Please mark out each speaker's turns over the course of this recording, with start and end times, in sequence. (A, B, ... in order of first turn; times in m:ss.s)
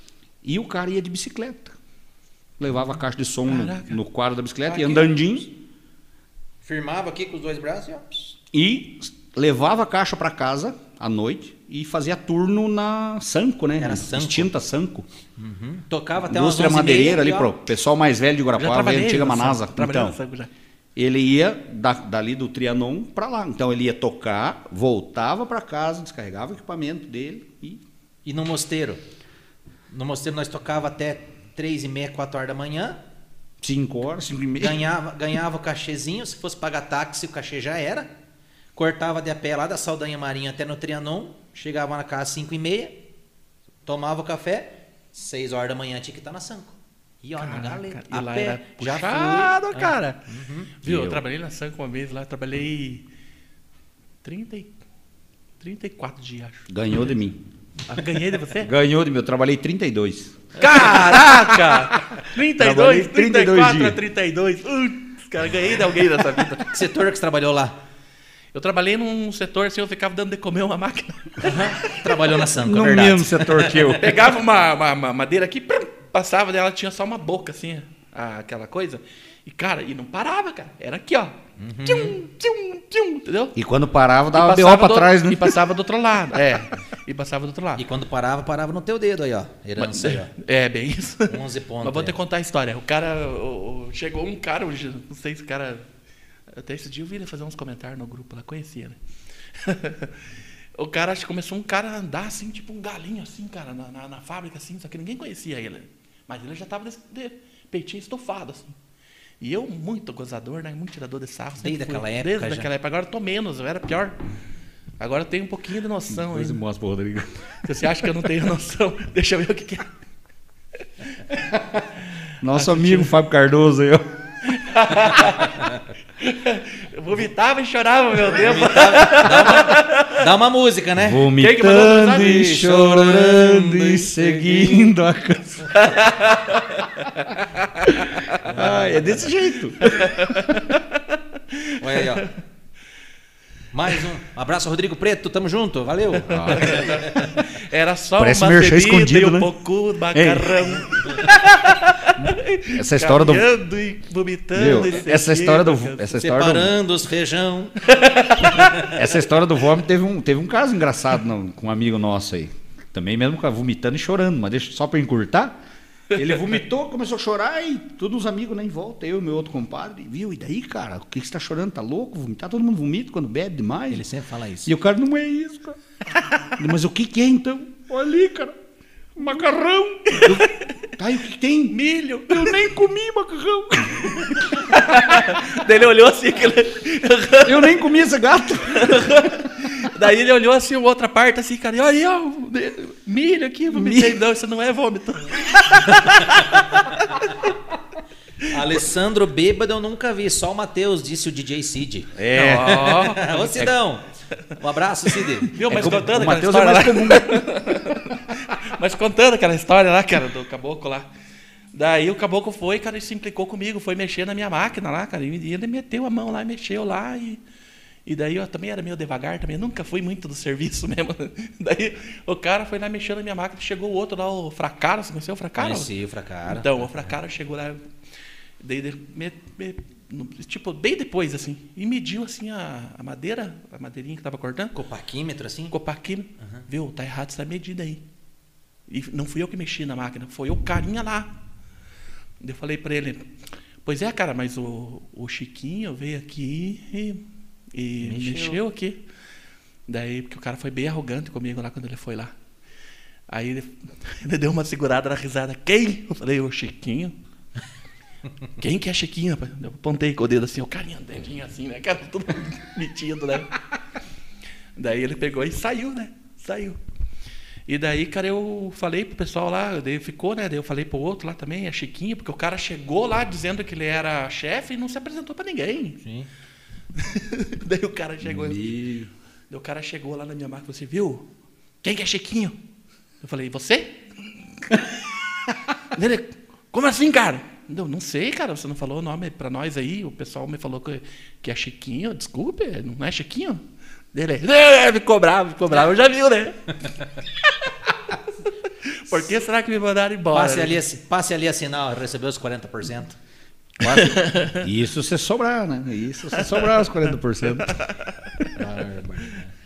0:00.4-0:01.8 A
0:02.6-0:05.5 A
0:03.4-0:04.0 B
0:04.7-0:05.2 C
0:06.6-0:08.4 C
0:08.5-0:15.1 A
0:13.8-0:14.5 C
0:15.4-0:17.5 C
0:16.2-0:20.2 A
0:18.6-0:20.5 B
0:21.0-0:27.8 A
0:28.2-0:29.0 C
0:29.9-0:33.0 C
0:33.6-0:34.8 A
0:34.6-0:38.1 C
0:38.7-0:43.0 C
0:43.8-0:50.7 C
0:47.4-0:50.2 B
0:50.8-0:53.0 B
0:50.8-0:51.2 A
0:54.2-0:54.7 B
0:55.6-0:56.6 B
0:56.7-0:57.4 A
0:57.9-0:58.7 B
0:58.6-1:04.0 A
1:00.6-1:06.7 B
1:06.7-1:07.8 C
1:08.5-1:12.0 B
1:11.4-1:13.6 C
1:12.6-1:14.3 A
1:13.8-1:23.5 B
1:21.6-1:22.2 C
1:23.5-1:25.6 A
1:24.3-1:27.8 B
1:27.8-1:30.3 C
1:29.8-1:35.9 B
1:31.3-1:32.2 C
1:36.5-1:39.0 B
1:39.5-1:48.8 B
1:49.4-1:54.2 B
1:51.6-1:52.7 C
1:55.0-1:56.6 B
1:56.1-1:57.3 A
1:57.6-1:59.9 B
2:01.4-2:01.8 A
2:02.4-2:04.0 A
2:02.5-2:03.1 B
2:04.4-2:10.2 B
2:08.3-2:11.3 C
2:11.0-2:15.7 A
2:11.4-2:12.4 B
2:12.0-2:14.9 C
2:15.7-2:18.4 B
2:18.4-2:20.2 A
2:18.5-2:19.0 C
2:19.8-2:22.3 B
2:21.8-2:22.3 C
2:23.7-2:27.4 C
2:26.3-2:27.0 A
2:26.5-2:36.2 B
2:28.2-2:29.5 A
2:30.1-2:30.6 A
2:32.1-2:33.5 A
2:34.5-2:36.7 A
2:36.2-2:39.0 C
2:37.8-2:38.7 B
2:38.8-2:45.6 A
2:46.1-2:54.0 A
2:53.9-2:54.7 C
2:54.6-2:55.8 A
2:56.5-2:58.5 A
2:59.1-3:01.8 A
3:00.1-3:00.5 B
3:01.7-3:02.6 B
3:02.3-3:05.2 A
3:04.5-3:07.8 B
3:07.4-3:09.2 A
3:08.7-3:17.5 B
3:13.7-3:14.2 A
3:18.5-3:24.0 C
3:22.2-3:23.7 A
3:22.3-3:23.3 B
3:24.6-3:25.5 C
3:25.5-3:31.1 B
3:25.6-3:27.8 A
3:31.7-3:37.4 B
3:38.0-3:45.9 B
3:45.6-3:46.9 C
3:46.4-3:47.8 B
3:48.6-3:54.7 B
3:54.7-3:55.7 C
3:55.7-3:58.0 B
3:58.9-4:01.3 B
4:02.4-4:03.3 B
4:03.8-4:09.0 B
4:08.0-4:08.6 C
4:09.9-4:12.3 B
4:13.3-4:17.1 B
4:18.6-4:23.6 B
4:24.8-4:26.8 B
4:27.7-4:36.0 B
4:36.0-4:36.3 C
4:36.9-4:38.7 B
4:38.2-4:39.1 A
4:39.5-4:41.2 B
4:41.8-4:42.6 B
4:43.2-4:44.0 B
4:45.9-4:56.6 B
4:57.4-4:57.7 B
4:58.8-5:00.8 B
5:00.3-5:03.2 C
5:03.8-5:07.8 A
5:03.8-5:04.6 B
5:07.6-5:08.1 B
5:08.6-5:09.5 C